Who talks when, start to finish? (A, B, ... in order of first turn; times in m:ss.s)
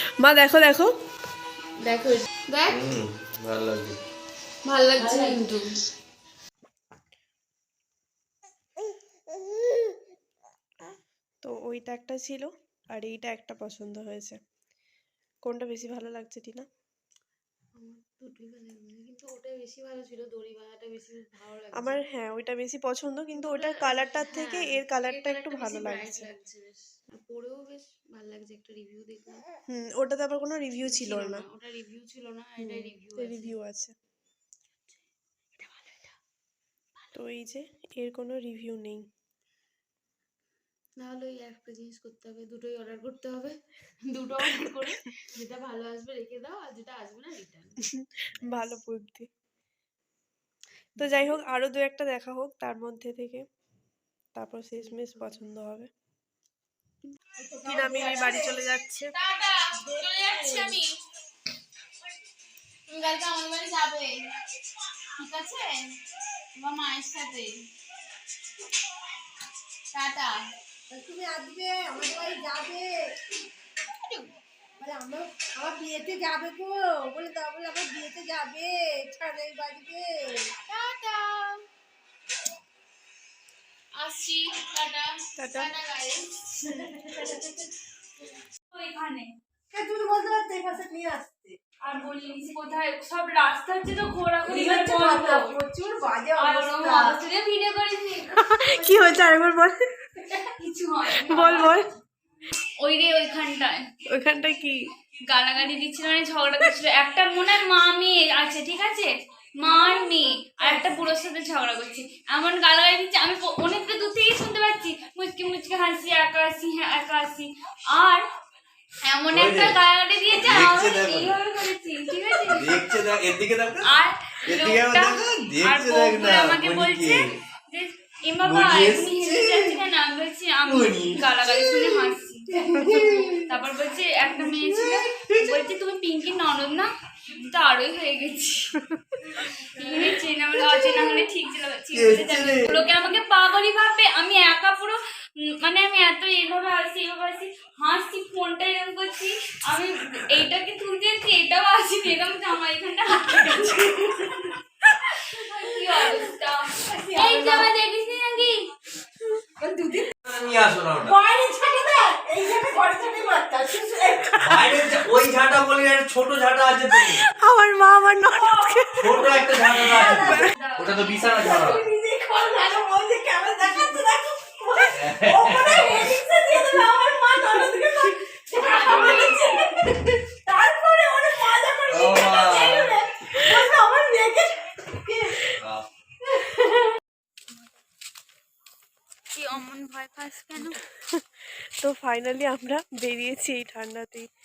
0:00.2-0:00.9 A
0:01.8-0:02.8 B
0:02.7-0:04.0 C
0:04.7-0:05.6 B
0:04.7-0:05.5 D
0:11.4-0:14.4 A
0:15.4-0:16.7 A
0:17.8-0:22.0 B
0:21.8-0:26.3 A
0:23.4-0:29.4 B
0:29.7-0:31.4 A
0:30.9-0:33.5 B
0:32.6-0:33.9 A
0:37.1-0:39.0 A
0:41.0-0:43.6 B
0:44.1-0:47.8 B
0:47.9-0:49.3 A
0:51.0-0:53.4 A
0:54.4-0:55.9 A
0:54.8-0:55.4 B
0:57.4-0:58.5 E
0:57.6-0:59.1 A
0:57.9-1:01.0 B
0:59.9-1:00.7 E
1:02.9-1:04.2 B
1:05.2-1:05.9 B
1:06.6-1:07.5 B
1:09.9-1:10.3 B
1:10.9-1:13.0 E
1:14.8-1:20.5 E
1:20.7-1:21.6 B
1:24.0-1:26.2 B
1:25.4-1:25.7 A
1:26.6-1:27.5 E
1:28.7-1:29.3 D
1:29.7-1:31.6 E
1:31.8-1:35.5 D
1:34.4-1:37.2 E
1:36.4-1:38.0 D
1:37.3-1:37.7 B
1:38.3-1:39.7 A
1:38.5-1:39.2 E
1:40.6-1:41.8 D
1:41.1-1:41.9 A
1:42.8-1:43.8 D
1:44.1-1:44.8 A
1:45.3-1:49.1 D
1:49.6-1:58.2 D
1:59.1-2:02.8 D
1:59.3-1:59.8 C
2:00.3-2:01.4 C
2:02.4-2:07.3 C
2:03.9-2:12.5 D
2:08.4-2:09.7 C
2:10.7-2:11.3 C
2:12.5-2:13.4 E
2:13.5-2:18.7 D
2:14.5-2:15.0 E
2:19.8-2:25.0 D
2:21.9-2:22.8 C
2:25.6-2:34.1 D
2:35.4-2:37.7 D
2:36.8-2:37.7 E
2:37.2-2:38.6 B
2:39.6-2:40.1 E
2:40.3-2:41.2 C
2:41.0-2:44.4 E
2:44.4-2:47.2 C
2:47.0-2:49.3 A
2:49.0-2:51.8 C
2:49.3-2:50.4 E
2:49.9-2:50.5 A
2:50.0-2:51.8 D
2:50.5-2:50.9 B
2:51.4-3:05.6 E
2:54.9-2:56.2 C
2:58.6-2:59.6 B
2:58.6-2:59.4 D
3:01.9-3:03.0 C
3:05.6-3:05.9 C
3:06.2-3:07.0 E
3:09.4-3:10.7 B
3:10.6-3:11.2 A
3:11.8-3:14.3 A